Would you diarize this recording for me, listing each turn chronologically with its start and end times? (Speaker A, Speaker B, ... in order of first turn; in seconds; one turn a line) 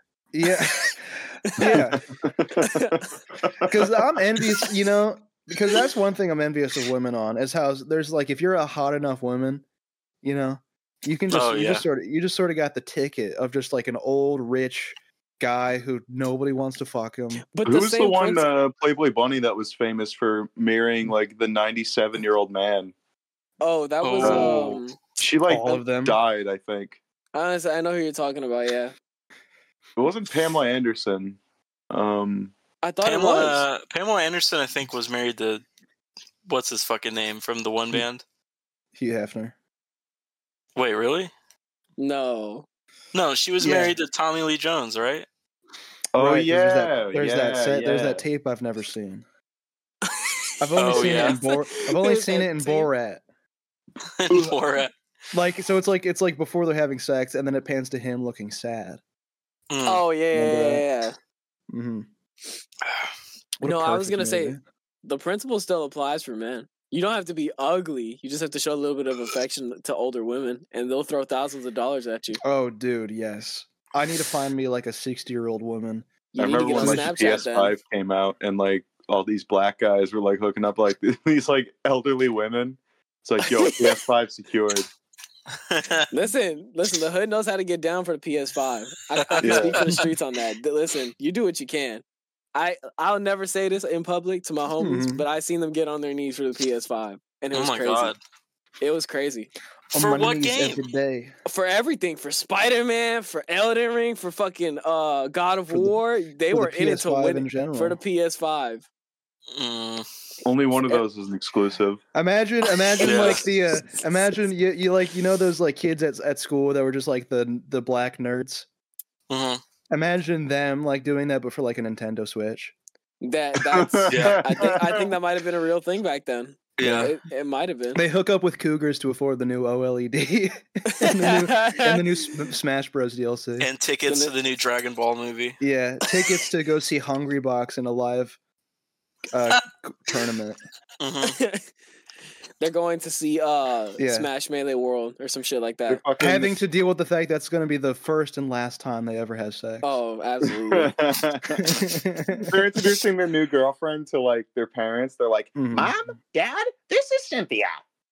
Speaker A: 0.3-2.0
Speaker B: 1.5-1.8
Speaker C: 2.2-3.8
Speaker B: 2.6-3.0
Speaker A: 3.6-9.7
Speaker A: 10.2-17.4
Speaker D: 11.3-11.8
Speaker B: 17.5-18.5
Speaker C: 17.6-22.9
Speaker B: 23.6-25.0
Speaker D: 24.0-24.8
Speaker C: 24.2-27.0
Speaker A: 25.5-26.2
Speaker B: 27.3-28.9
Speaker C: 30.0-31.4
Speaker C: 31.9-32.5
Speaker B: 32.8-33.6
Speaker D: 33.0-35.6
Speaker D: 36.5-38.2
Speaker A: 39.0-39.6
Speaker D: 40.8-41.3
Speaker B: 42.0-42.7
Speaker D: 43.1-45.3
Speaker A: 43.6-44.0
Speaker A: 46.1-49.2
Speaker C: 46.1-48.2
Speaker A: 50.6-53.2
Speaker D: 50.8-51.4
Speaker B: 50.8-52.9
Speaker D: 54.2-54.9
Speaker A: 54.3-54.5
Speaker A: 55.3-59.0
Speaker D: 59.7-60.0
Speaker B: 59.9-61.2
Speaker A: 60.3-60.9
Speaker A: 61.7-62.1
Speaker A: 63.6-64.6
Speaker B: 63.6-72.4
Speaker A: 72.4-76.1
Speaker B: 76.3-77.7
Speaker C: 76.4-84.9
Speaker A: 76.8-77.1
Speaker D: 85.7-86.1
Speaker B: 86.1-92.0
Speaker D: 89.3-89.7
Speaker C: 89.4-90.0
Speaker B: 92.5-98.1
Speaker A: 94.8-95.2
Speaker D: 97.5-98.2
Speaker B: 98.8-99.5
Speaker A: 99.9-101.3
Speaker D: 99.9-100.8
Speaker B: 101.5-108.9
Speaker A: 105.7-106.0
Speaker A: 106.5-108.0
Speaker D: 109.5-110.1
Speaker C: 110.5-112.0
Speaker A: 112.1-118.7
Speaker D: 113.0-113.5
Speaker D: 119.3-119.6
Speaker A: 119.9-122.7
Speaker B: 123.2-128.0
Speaker C: 123.6-125.0
Speaker D: 124.1-124.4
Speaker D: 126.8-127.2
Speaker A: 128.0-133.7
Speaker B: 130.9-132.0
Speaker D: 133.6-135.6
Speaker B: 134.1-134.3
Speaker A: 135.6-138.4
Speaker A: 139.3-140.6
Speaker D: 141.0-141.4
Speaker B: 141.3-141.7
Speaker B: 142.6-146.0
Speaker A: 144.0-144.3
Speaker C: 145.9-146.6
Speaker A: 146.2-150.0
Speaker B: 149.8-150.9
Speaker C: 150.7-151.8
Speaker A: 151.6-152.6
Speaker C: 152.4-155.6
Speaker A: 155.6-156.0
Speaker E: 155.7-157.8